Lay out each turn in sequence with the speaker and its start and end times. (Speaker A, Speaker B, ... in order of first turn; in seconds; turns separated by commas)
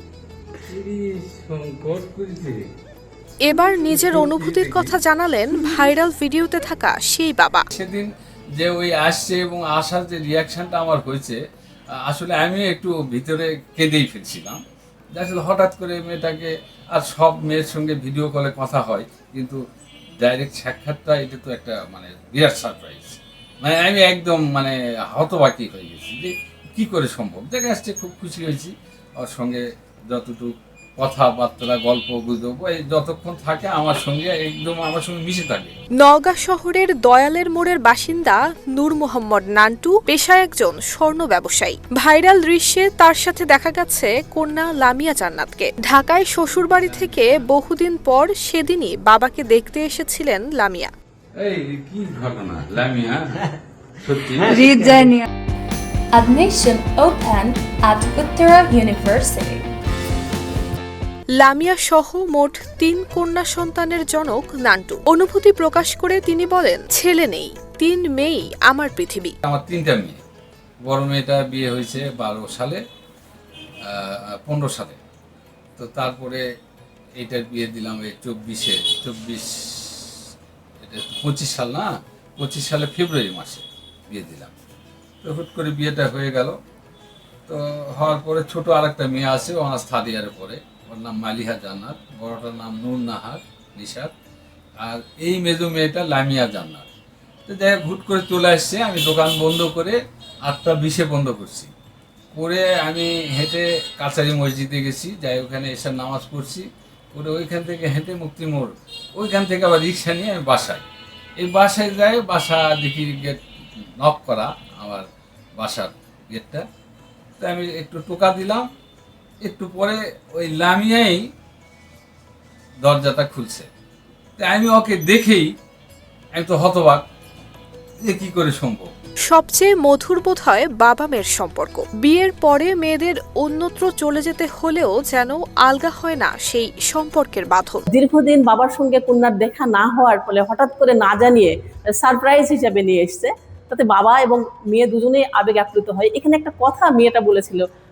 Speaker A: 0.7-2.7, Speaker B: 3.4-7.7, Speaker A: 3.9-5.0, Speaker A: 7.7-11.4, Speaker A: 12.0-19.6, Speaker A: 20.2-35.7, Speaker B: 36.0-50.9, Speaker A: 46.7-47.5, Speaker A: 51.4-53.5, Speaker A: 54.0-55.1, Speaker C: 54.4-55.2, Speaker C: 56.1-59.6, Speaker B: 61.3-69.3, Speaker A: 69.4-70.2, Speaker A: 70.8-72.8, Speaker A: 73.8-75.0, Speaker A: 75.8-76.4, Speaker A: 77.2-80.1, Speaker A: 80.8-84.5, Speaker A: 85.2-86.5, Speaker A: 87.5-94.1, Speaker A: 94.8-96.8, Speaker A: 97.5-101.7, Speaker A: 102.3-110.8, Speaker A: 111.4-113.4, Speaker A: 114.0-115.0, Speaker A: 115.6-116.6, Speaker A: 117.4-118.7, Speaker A: 119.4-121.2, Speaker A: 122.8-123.7, Speaker A: 124.4-125.5, Speaker A: 126.3-127.0, Speaker A: 128.0-128.9, Speaker B: 129.3-137.8, Speaker D: 137.9-147.6